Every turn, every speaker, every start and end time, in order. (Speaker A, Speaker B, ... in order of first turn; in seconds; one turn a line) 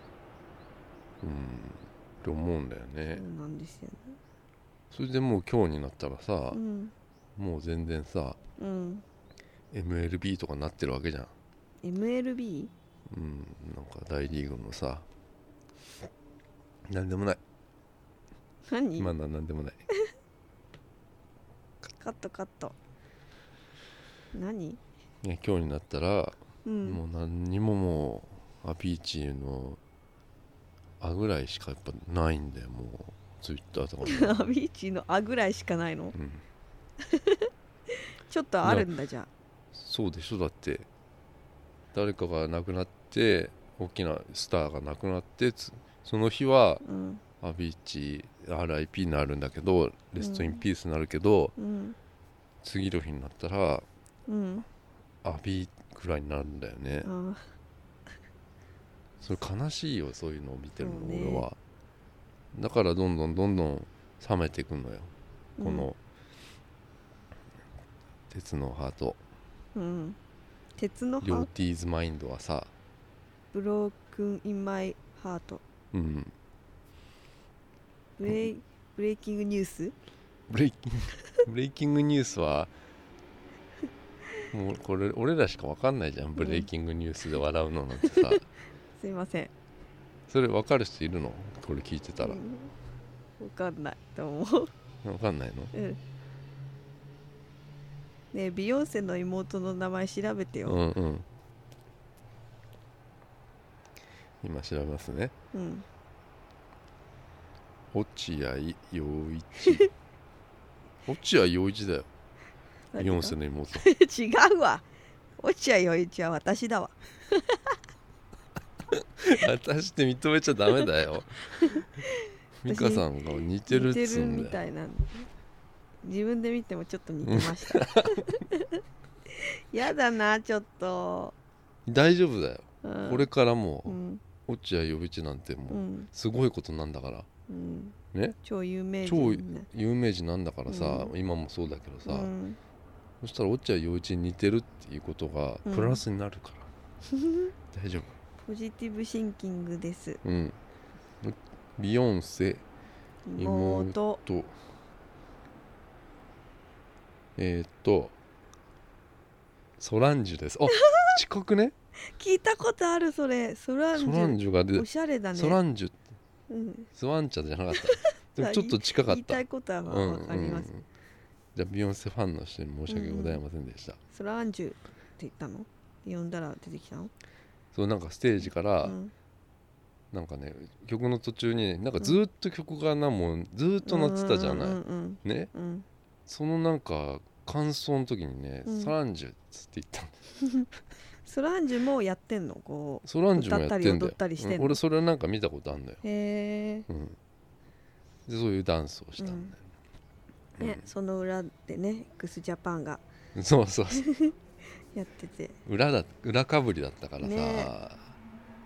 Speaker A: 1.2-3.2
Speaker B: 3.1-4.2
Speaker A: 4.9-6.6
Speaker B: 6.5-6.9
Speaker A: 7.3-8.4
Speaker B: 8.6-9.0
Speaker A: 9.7-11.3
Speaker B: 11.8-12.7
Speaker A: 13.1-15.1
Speaker A: 16.9-17.4
Speaker B: 18.7-19.1
Speaker A: 19.0-19.8
Speaker B: 22.0-22.7
Speaker B: 24.3-24.8
Speaker A: 25.2-29.8
Speaker B: 26.6-27.0
Speaker A: 31.0-34.5
Speaker B: 34.0-36.1
Speaker A: 36.1-36.4
Speaker B: 37.0-39.3
Speaker A: 38.6-38.9
Speaker A: 39.7-40.9
Speaker A: 41.9-46.8
Speaker B: 46.8-47.2
Speaker A: 47.4-51.5
Speaker B: 50.2-50.6
Speaker B: 51.6-52.0
Speaker A: 52.6-53.9
Speaker B: 54.3-54.6
Speaker A: 55.2-57.1
Speaker B: 57.0-57.4
Speaker A: 59.2-61.6
Speaker B: 60.8-61.5
Speaker A: 62.5-66.0
Speaker B: 65.6-65.9
Speaker A: 68.3-69.2
Speaker B: 69.7-70.2
Speaker B: 70.8-71.5
Speaker A: 71.2-72.7
Speaker B: 73.5-75.6
Speaker A: 75.9-76.3
Speaker B: 78.2-79.9
Speaker A: 80.5-82.7
Speaker A: 84.5-88.4
Speaker B: 86.4-86.7
Speaker B: 88.0-88.4
Speaker B: 89.0-89.5
Speaker A: 90.3-92.4
Speaker B: 92.2-92.7
Speaker B: 93.4-94.7
Speaker A: 95.0-95.7
Speaker B: 95.7-96.0
Speaker B: 98.3-100.8
Speaker A: 100.7-101.2
Speaker A: 104.4-105.3
Speaker B: 105.5-105.8
Speaker A: 107.9-109.9
Speaker B: 109.6-109.9
Speaker A: 111.0-112.1
Speaker B: 112.9-114.8
Speaker A: 113.0-113.9
Speaker B: 115.4-117.6
Speaker A: 118.9-121.8
Speaker B: 121.6-123.0
Speaker A: 122.6-124.6
Speaker B: 123.7-125.3
Speaker B: 126.0-131.3
Speaker A: 127.2-128.4
Speaker A: 131.8-137.3
Speaker B: 132.8-133.3
Speaker B: 133.8-134.2
Speaker B: 135.7-136.1
Speaker B: 137.5-139.7
Speaker A: 139.0-142.3
Speaker B: 140.7-141.1
Speaker B: 142.1-142.6
Speaker A: 143.2-146.7
Speaker B: 145.6-146.0
Speaker B: 147.1-147.5
Speaker A: 147.7-148.1
Speaker B: 148.4-150.2
Speaker A: 150.2-150.6
Speaker A: 151.2-152.6
Speaker B: 153.3-154.2
Speaker A: 153.4-154.5
Speaker A: 157.3-158.1
Speaker A: 159.8-161.7
Speaker B: 160.7-161.2
Speaker B: 162.1-165.6
Speaker A: 163.9-166.0
Speaker B: 166.5-166.9
Speaker A: 166.9-170.8
Speaker B: 167.8-170.7
Speaker A: 171.6-174.0
Speaker B: 172.9-173.4
Speaker B: 174.1-177.1
Speaker A: 177.7-179.0
Speaker B: 178.8-179.1
Speaker A: 180.1-185.5
Speaker B: 183.8-185.8
Speaker A: 186.3-190.2
Speaker B: 188.7-188.9
Speaker B: 190.4-190.7
Speaker B: 191.2-194.8
Speaker A: 193.0-196.0
Speaker B: 196.0-196.9
Speaker A: 196.9-197.2
Speaker A: 198.3-199.5
Speaker B: 199.2-199.5
Speaker A: 200.6-200.8
Speaker B: 200.6-203.0
Speaker A: 203.3-204.1
Speaker B: 203.9-204.3
Speaker B: 204.9-205.6
Speaker A: 205.6-208.1
Speaker B: 207.2-207.7